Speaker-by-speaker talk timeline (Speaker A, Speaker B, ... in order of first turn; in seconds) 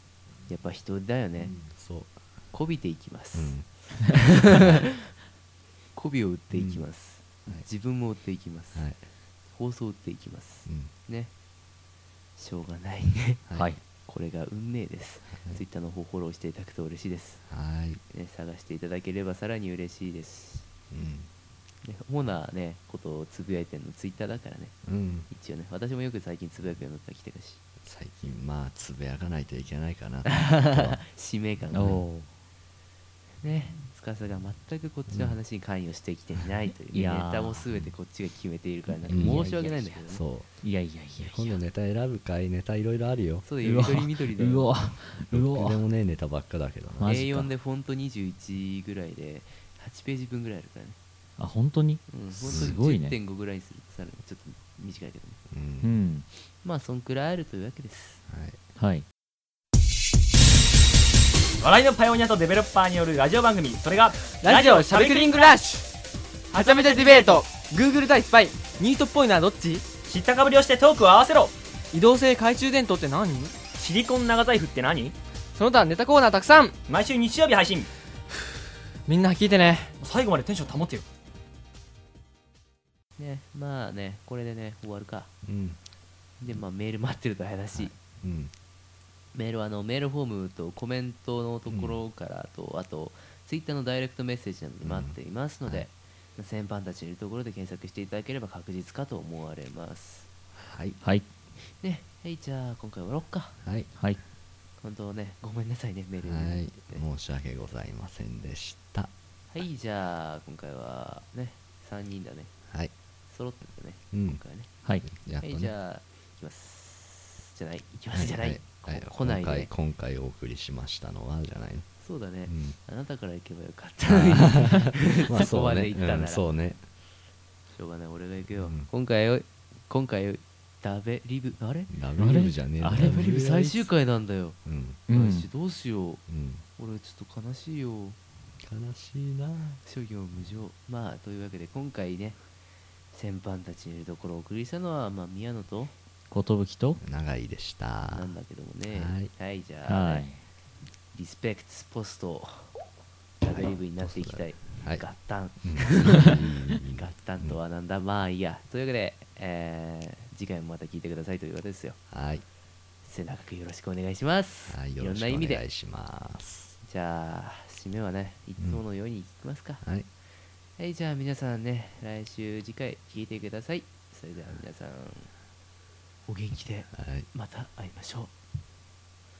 Speaker A: 0.5-1.5, 2.5-5.0, 5.9-8.9, 9.5-11.3, 12.4-13.4, 14.0-17.4, 18.1-20.6, 21.8-24.8, 25.3-27.6, 30.2-32.0, 33.4-40.2, 43.4-44.7, 47.0-51.0, 52.1-55.4, 56.6-58.2, 83.2-85.3, 86.4-88.0, 89.3-100.3, 101.7-103.6, 104.8-107.0, 109.5-112.5, 113.3-114.7, 115.4-119.7, 122.0-126.4, 127.7-131.9, 132.9-134.6, 135.1-136.2, 136.8-138.2, 139.8-142.4, 143.1-145.9, 148.0-150.3, 151.1-152.7, 153.4-162.0, 163.0-165.6, 166.8-169.8, 170.8-175.3, 176.3-178.3
Speaker B: 1.4-2.2, 3.3-3.7, 6.5-6.9, 8.7-9.0, 10.7-10.9, 15.3-15.6, 17.5-18.0, 20.9-21.3, 24.8-25.3, 27.8-31.0, 31.7-32.0, 35.1-35.4, 39.1-40.5, 41.2-43.5, 45.2-47.5, 52.3-52.8, 55.5-55.9, 58.3-58.6, 85.4-85.8, 87.7-88.5, 91.7-92.0, 94.8-95.8, 100.6-101.0, 103.6-103.9, 106.2-109.1, 114.1-114.4, 115.0-115.7, 118.1-121.9, 122.5-122.8, 124.1-126.8, 128.6-128.9, 131.9-133.9, 134.6-135.0, 136.3-136.6, 138.6-139.8, 147.0-148.3, 148.9-149.3, 153.5-155.1, 155.6-157.6, 162.1-162.4, 164.7-166.8, 177.0-177.3
Speaker C: 13.5-13.8, 31.7-32.3, 36.9-37.6, 38.9-39.5, 40.6-41.6, 43.6-45.8, 47.0-47.4, 51.4-53.2, 55.8-56.3, 58.8-59.0, 101.0-101.3, 132.2-133.3, 135.1-135.5, 146.3-147.0, 149.8-150.4
Speaker D: 61.6-65.6, 66.5-67.7, 68.6-72.1, 72.7-75.7, 76.8-77.9, 79.1-79.3, 79.9-81.0
Speaker E: 64.4-65.8, 66.6-68.6, 72.0-72.8, 75.6-76.7, 79.3-79.9